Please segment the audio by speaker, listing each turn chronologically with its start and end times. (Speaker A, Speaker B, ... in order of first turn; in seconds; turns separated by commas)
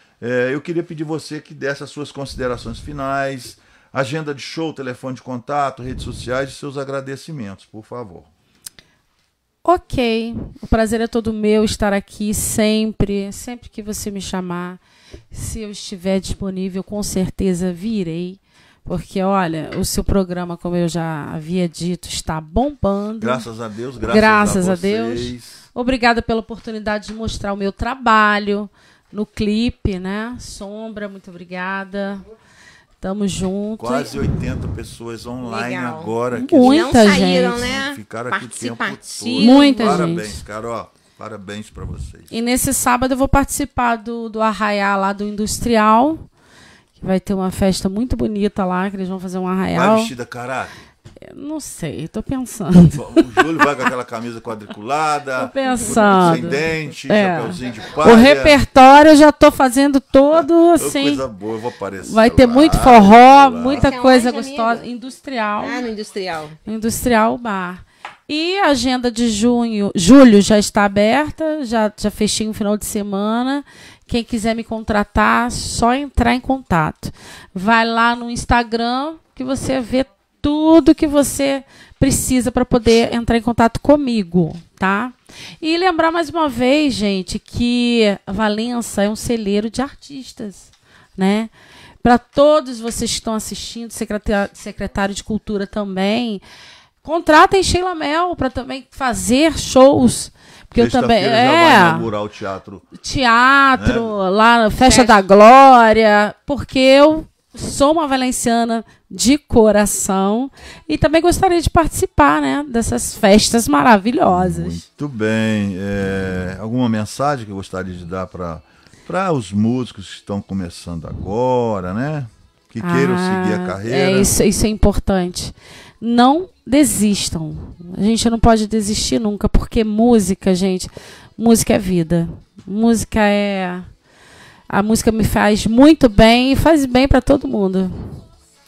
Speaker A: 0.2-8.3, Speaker B: 9.6-14.8, Speaker B: 15.3-23.4, Speaker A: 23.2-25.6, Speaker B: 24.0-32.3, Speaker B: 33.0-34.3, Speaker A: 33.8-42.3, Speaker C: 35.4-40.1, Speaker B: 36.3-37.6, Speaker B: 39.4-40.4, Speaker B: 42.3-46.3, Speaker B: 47.0-50.1, Speaker A: 49.7-50.9, Speaker B: 51.2-53.8, Speaker A: 52.9-58.6, Speaker B: 55.4-61.2, Speaker C: 55.7-56.4, Speaker A: 60.4-64.0, Speaker B: 62.0-65.8, Speaker C: 63.6-64.8, Speaker C: 65.6-66.6, Speaker B: 66.6-96.4, Speaker B: 97.0-102.1, Speaker A: 100.7-102.8, Speaker B: 103.0-114.8, Speaker A: 103.7-104.1, Speaker C: 104.8-105.2, Speaker A: 114.2-124.3, Speaker B: 122.8-133.9, Speaker B: 134.7-138.2